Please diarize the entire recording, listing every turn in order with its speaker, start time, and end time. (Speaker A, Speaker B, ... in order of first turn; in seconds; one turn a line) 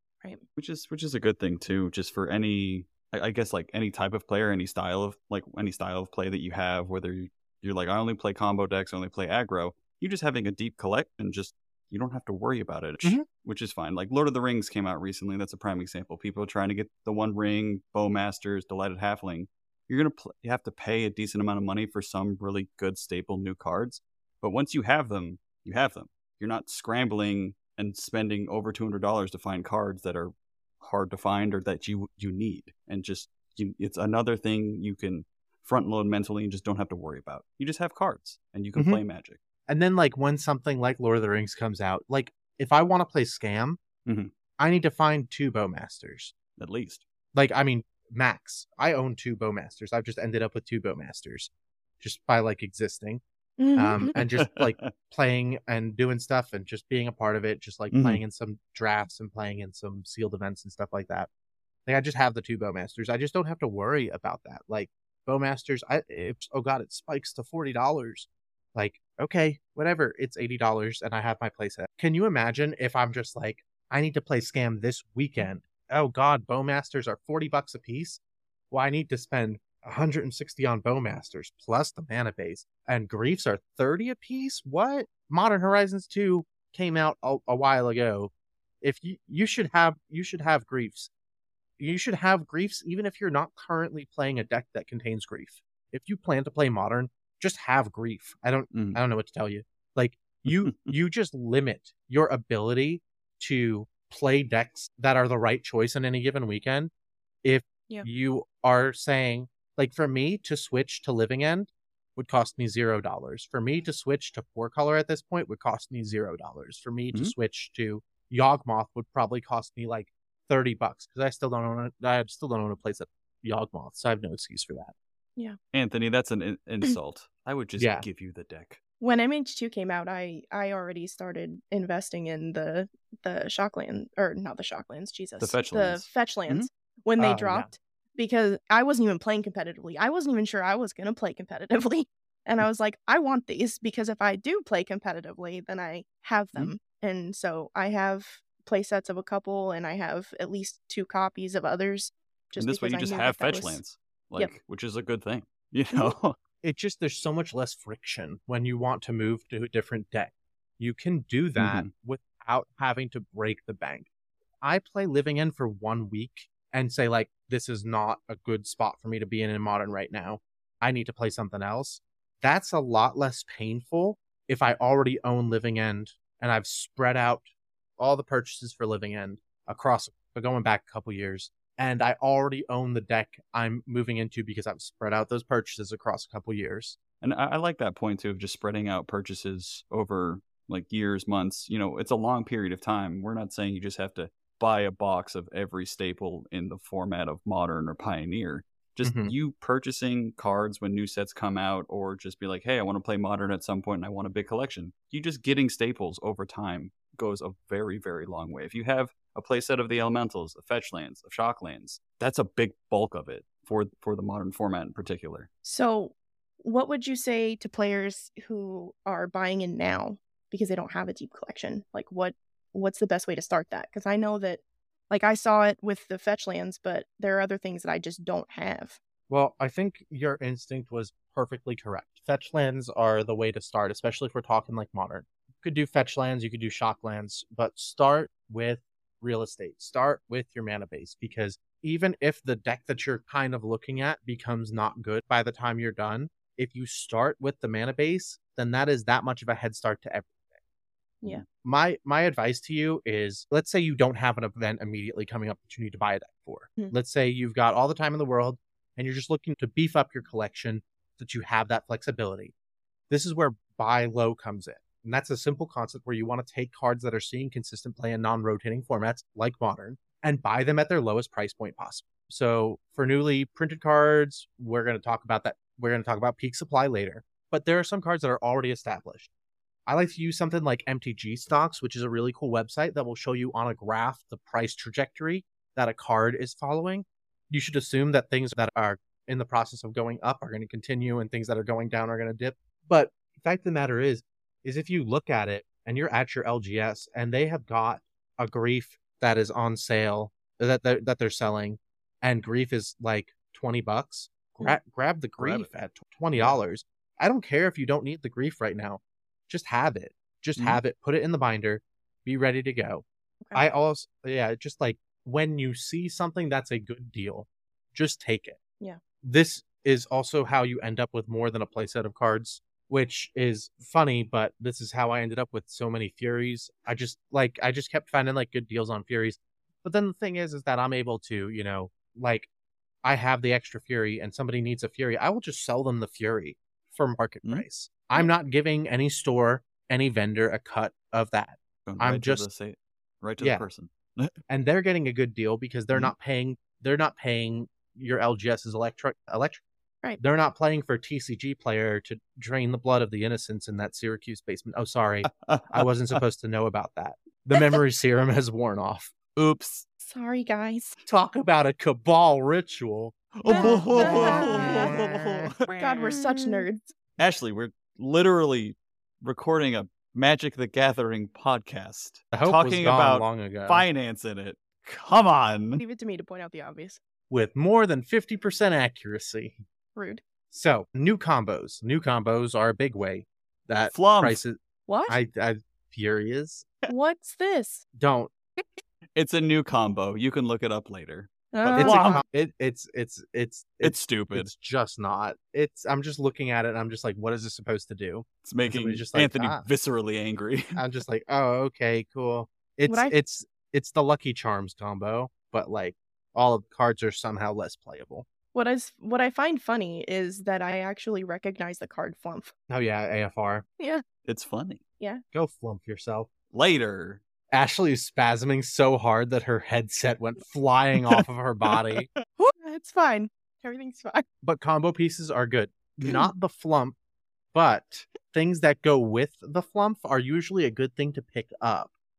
Speaker A: 0.6-39.4
Speaker B: 38.8-39.0
Speaker B: 39.7-43.8
Speaker A: 44.1-44.3
Speaker B: 44.6-46.3
Speaker A: 46.6-47.0
Speaker B: 47.3-51.5
Speaker B: 52.0-53.2
Speaker C: 53.6-54.1
Speaker B: 53.8-61.3
Speaker A: 54.1-54.9
Speaker A: 57.9-58.2
Speaker B: 61.9-78.2
Speaker B: 78.7-91.1
Speaker B: 91.8-106.9
Speaker A: 98.7-99.0
Speaker A: 100.5-100.9
Speaker B: 107.4-124.9
Speaker A: 125.7-128.8
Speaker B: 127.8-128.0
Speaker C: 129.0-153.8
Speaker A: 135.4-136.7
Speaker B: 137.2-137.7
Speaker A: 152.6-156.4
Speaker B: 156.6-164.1
Speaker A: 161.6-161.9
Speaker B: 164.6-177.5
Speaker B: 178.0-187.0
Speaker A: 187.2-215.5
Speaker B: 199.0-199.3
Speaker C: 215.6-229.0
Speaker B: 229.3-250.5
Speaker B: 251.6-262.5
Speaker B: 263.1-279.3
Speaker B: 279.9-318.6
Speaker A: 305.4-305.7
Speaker A: 310.6-310.8
Speaker B: 319.2-332.5
Speaker B: 333.0-342.5
Speaker A: 341.9-344.4
Speaker B: 343.4-343.7
Speaker B: 344.5-349.6
Speaker B: 350.2-359.3
Speaker A: 355.3-356.2
Speaker A: 359.4-359.8
Speaker C: 360.0-361.0
Speaker B: 361.1-365.5
Speaker A: 363.4-366.6
Speaker C: 363.5-364.9
Speaker C: 365.8-366.9
Speaker A: 367.2-375.8
Speaker B: 372.3-373.9
Speaker C: 375.8-377.0
Speaker B: 377.3-379.6
Speaker C: 380.0-380.2
Speaker B: 380.5-386.7
Speaker A: 383.9-384.4
Speaker C: 384.9-385.2
Speaker C: 386.9-387.9
Speaker B: 387.9-388.3
Speaker A: 389.2-392.2
Speaker C: 391.5-392.1
Speaker B: 391.8-399.7
Speaker A: 393.8-394.5
Speaker A: 398.4-400.8
Speaker B: 400.8-408.3
Speaker C: 402.9-403.1
Speaker C: 408.5-412.5
Speaker B: 412.7-413.7
Speaker A: 414.2-414.8
Speaker B: 415.3-416.3
Speaker A: 416.5-417.2
Speaker B: 417.5-422.1
Speaker A: 421.1-422.2
Speaker C: 422.4-424.2
Speaker B: 424.4-427.0
Speaker B: 427.5-431.9